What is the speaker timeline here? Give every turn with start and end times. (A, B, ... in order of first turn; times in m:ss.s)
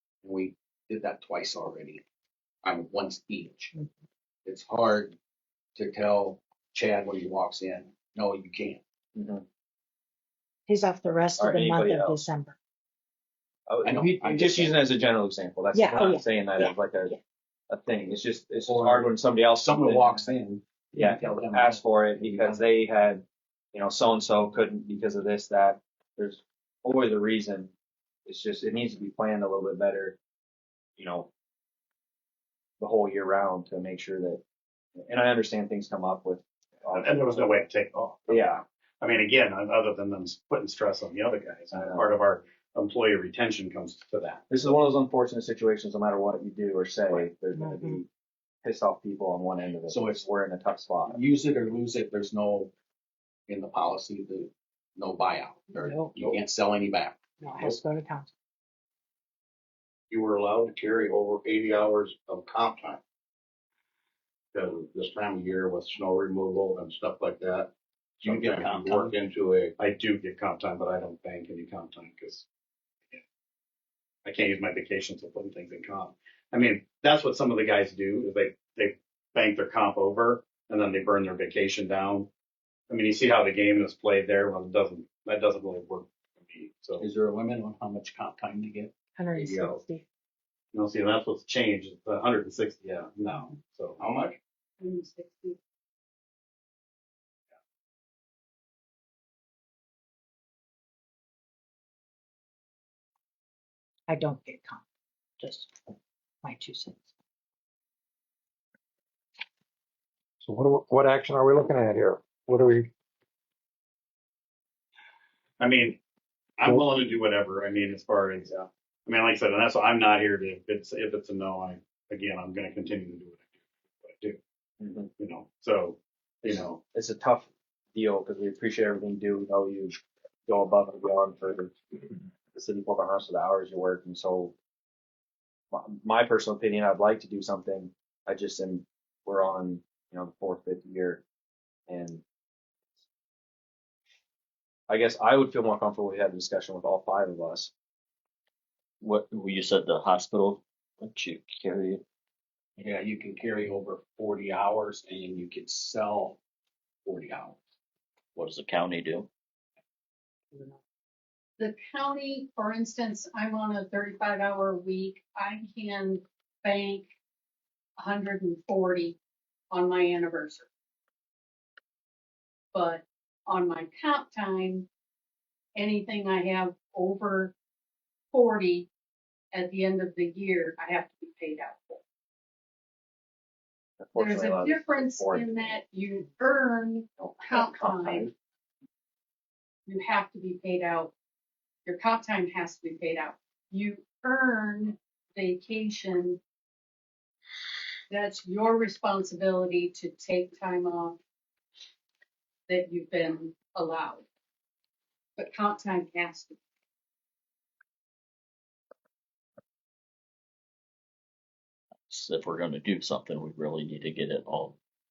0:00.2-0:02.0 A
0:02.6-0:03.7 A
0:04.5-0:05.1 A
0:05.8-0:08.8 A
0:09.2-0:09.4 B
0:10.7-0:12.6 C
0:11.4-0:12.2 B
0:13.7-0:17.2 B
0:13.8-0:14.8 A
0:15.7-0:16.7 C
0:17.7-0:20.3 B
0:18.6-0:22.6 A
0:21.0-0:27.7 B
0:28.3-0:30.2 B
0:31.0-0:31.3 B
0:32.8-0:34.4 B
0:35.0-0:37.6 B
0:36.9-0:44.5 D
0:38.3-0:38.6 B
0:41.7-0:42.0 B
0:44.5-0:48.1 B
0:47.5-0:48.0 C
0:48.6-0:51.2 B
0:49.9-0:50.2 A
0:51.1-0:52.7 A
0:53.5-0:57.7 A
0:55.8-0:56.2 C
0:57.4-0:58.3 C
1:00.1-1:03.0 E
1:04.5-1:07.7 E
1:08.2-1:09.7 E
1:08.2-1:09.1 A
1:09.8-1:12.4 D
1:14.2-1:22.3 D
1:22.9-1:27.0 D
1:27.0-1:29.8 A
1:29.2-1:30.0 C
1:30.7-1:34.0 D
1:34.0-1:34.3 A
1:34.8-1:35.6 F
1:44.1-1:44.8 C
1:45.4-1:45.8 C
1:46.4-1:47.1 C
1:50.4-1:52.9 G
1:55.6-1:56.0 D
1:56.6-2:04.4 D
1:56.6-1:56.9 G
2:04.8-2:05.1 B
2:05.2-2:06.8 D
2:06.5-2:14.6 B
2:15.7-2:21.2 B
2:21.9-2:22.2 B
2:24.9-2:27.7 B
2:29.0-2:31.4 H
2:31.4-2:32.0 B
2:32.8-2:36.4 A
2:37.0-2:37.6 A
2:38.4-2:39.3 H
2:41.6-2:47.1 F
2:48.0-2:49.2 F
2:49.7-2:50.7 F
2:52.7-2:54.9 F
2:55.8-2:57.6 F
2:58.3-2:58.9 F
2:59.5-3:02.0 F
3:04.0-3:05.8 B
3:04.2-3:08.3 F
3:07.2-3:08.3 B
3:09.9-3:11.1 F
3:11.9-3:16.4 F
3:18.1-3:21.2 F
3:22.7-3:24.2 F
3:25.4-3:26.6 F
3:32.1-3:34.8 H